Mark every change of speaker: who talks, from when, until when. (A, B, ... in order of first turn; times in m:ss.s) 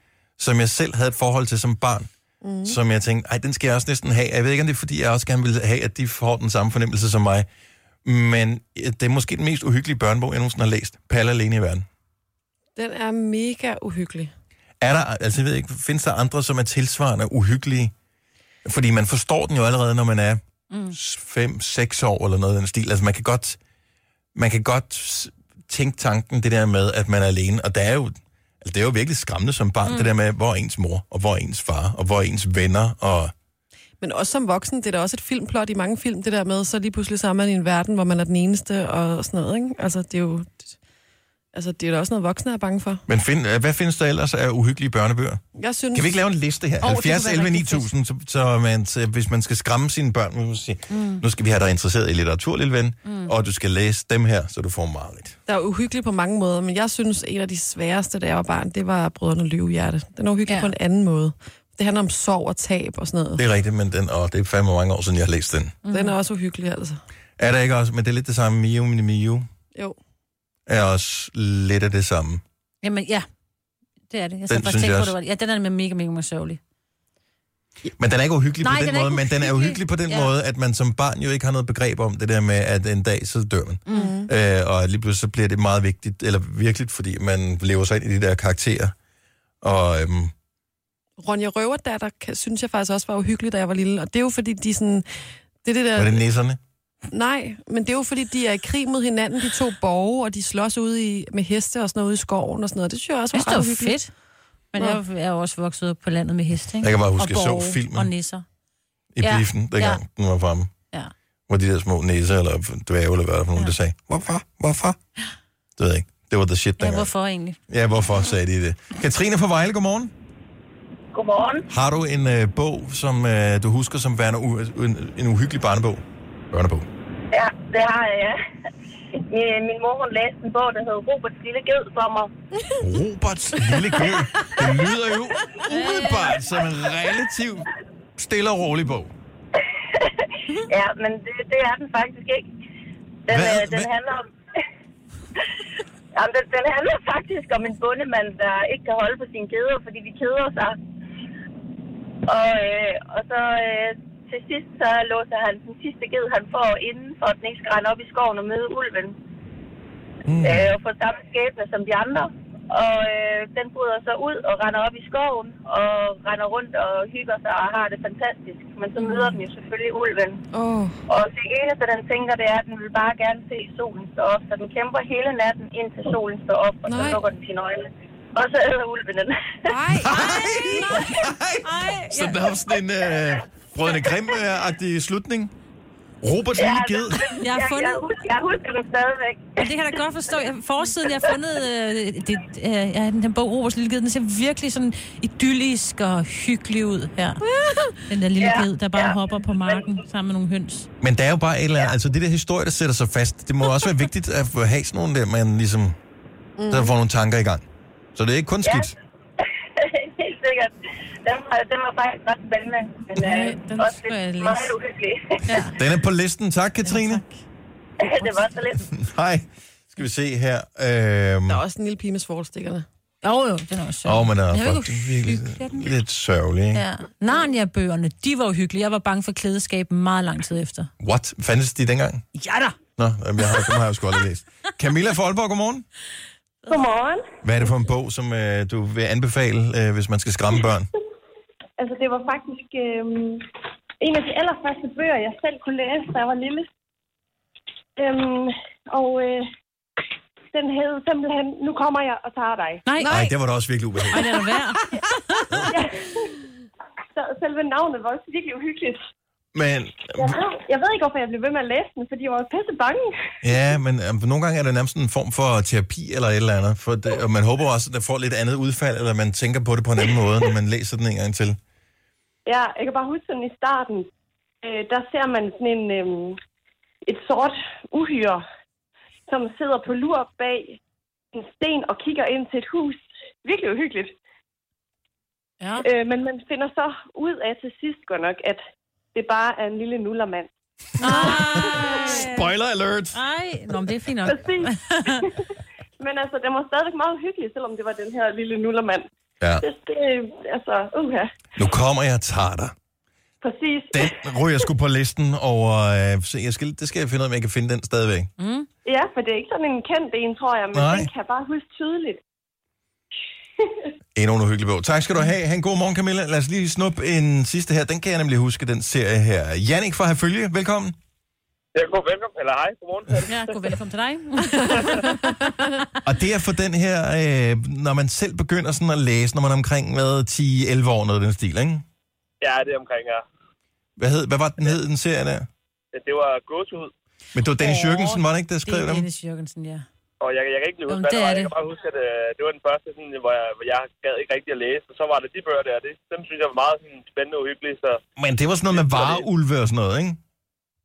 0:00.4-0:02.1 A
0:02.4-0:02.8 B
0:02.6-0:07.5 A
0:08.0-0:11.8 A
0:12.8-0:14.3 B
0:14.8-0:17.9 A
0:18.6-0:20.4 A
0:20.9-0:23.6 A
0:24.3-0:33.3 A
0:29.8-0:30.1 C
0:34.0-0:40.7 B
0:41.5-0:43.0 B
0:43.1-0:45.4 A
0:45.5-0:46.1 B
0:45.9-0:55.4 A
0:46.8-0:47.9 C
0:50.9-0:51.2 C
0:53.0-0:53.3 C
0:55.5-1:03.4 B
1:00.5-1:00.7 C
1:03.4-1:05.8 A
1:05.8-1:06.1 C
1:05.9-1:07.0 B
1:07.4-1:09.4 A
1:10.7-1:12.4 A
1:12.8-1:13.2 C
1:14.1-1:16.6 C
1:14.5-1:15.1 A
1:18.0-1:28.9 A
1:18.6-1:20.3 C
1:23.9-1:24.1 C
1:23.9-1:24.3 B
1:29.6-1:30.3 A
1:31.2-1:35.0 B
1:35.6-1:36.2 B
1:36.0-1:36.6 A
1:37.1-1:44.0 B
1:43.3-1:44.1 C
1:44.7-1:48.4 C
1:46.8-1:48.1 A
1:49.1-1:50.7 A
1:49.2-1:50.0 C
1:51.5-1:55.0 A
1:55.8-1:57.1 A
1:56.8-1:57.6 C
1:57.7-2:00.1 A
2:01.1-2:01.6 D
2:01.7-2:06.9 A
2:07.3-2:08.4 D
2:09.3-2:12.3 D
2:12.8-2:19.1 A
2:13.9-2:14.8 B
2:15.7-2:16.4 C
2:19.9-2:22.5 D
2:23.3-2:24.6 D
2:23.3-2:23.9 A
2:26.1-2:30.8 D
2:32.2-2:39.2 D
2:40.2-2:40.7 A
2:40.4-2:50.4 D
2:49.0-2:49.3 C
2:50.5-2:51.0 B
2:51.1-2:59.3 D
2:56.8-2:57.2 B
2:59.7-3:00.2 B
2:59.9-3:05.5 A
3:00.1-3:02.5 C
3:06.2-3:07.3 A
3:06.6-3:09.6 D
3:07.4-3:08.1 C
3:09.6-3:17.4 C
3:17.6-3:17.9 B
3:18.1-3:20.9 C
3:18.4-3:19.8 D
3:21.0-3:26.0 A
3:26.6-3:26.9 B
3:26.7-3:27.6 A
3:28.1-3:28.9 A
3:28.6-3:28.9 D
3:29.8-3:35.6 D
3:33.2-3:34.7 C
3:35.5-3:35.8 C
3:35.6-3:37.2 A
3:36.8-3:37.4 C
3:38.0-3:38.9 D
3:38.8-3:41.6 A
3:41.5-3:42.8 B
3:43.2-3:46.0 C
3:44.0-3:46.8 A
3:46.7-3:50.9 C
3:51.0-3:52.2 A
3:52.3-3:52.8 C
3:53.0-3:55.8 A
3:53.4-3:53.8 C
3:56.7-3:57.2 E
3:57.4-4:00.9 A
4:01.8-4:03.4 E
4:04.0-4:06.7 E
4:08.0-4:09.4 E
4:10.5-4:12.8 E
4:12.9-4:13.2 C
4:13.0-4:13.3 B
4:13.0-4:14.2 A
4:14.1-4:15.5 C
4:15.7-4:16.4 E
4:17.1-4:19.0 E
4:19.5-4:20.4 A
4:20.2-4:23.0 E
4:23.4-4:31.6 A
4:32.4-4:34.1 E
4:34.6-4:36.4 E
4:37.0-4:38.4 E
4:39.3-4:40.8 E
4:41.3-4:44.1 E
4:45.8-4:48.6 E
4:49.1-4:50.5 E
4:51.0-4:52.5 C
4:51.0-4:52.0 E
4:51.2-4:53.2 A
4:53.1-4:55.3 C
4:54.2-4:55.4 E
4:56.0-4:59.0 E
4:59.6-5:01.2 E
5:01.6-5:02.7 A
5:03.4-5:04.6 E
5:03.9-5:08.3 A
5:08.4-5:08.7 C
5:08.8-5:12.2 E
5:10.7-5:11.1 A
5:13.6-5:13.9 E
5:14.2-5:20.9 A
5:21.7-5:23.5 F
5:23.3-5:25.9 C
5:24.6-5:25.0 F
5:26.0-5:31.8 A
5:32.4-5:33.2 F
5:34.0-5:35.5 A
5:35.9-5:36.9 F
5:37.3-5:39.1 A
5:37.6-5:39.8 C
5:40.2-5:48.0 F
5:40.9-5:41.5 C
5:48.2-5:50.2 A
5:48.7-5:49.2 F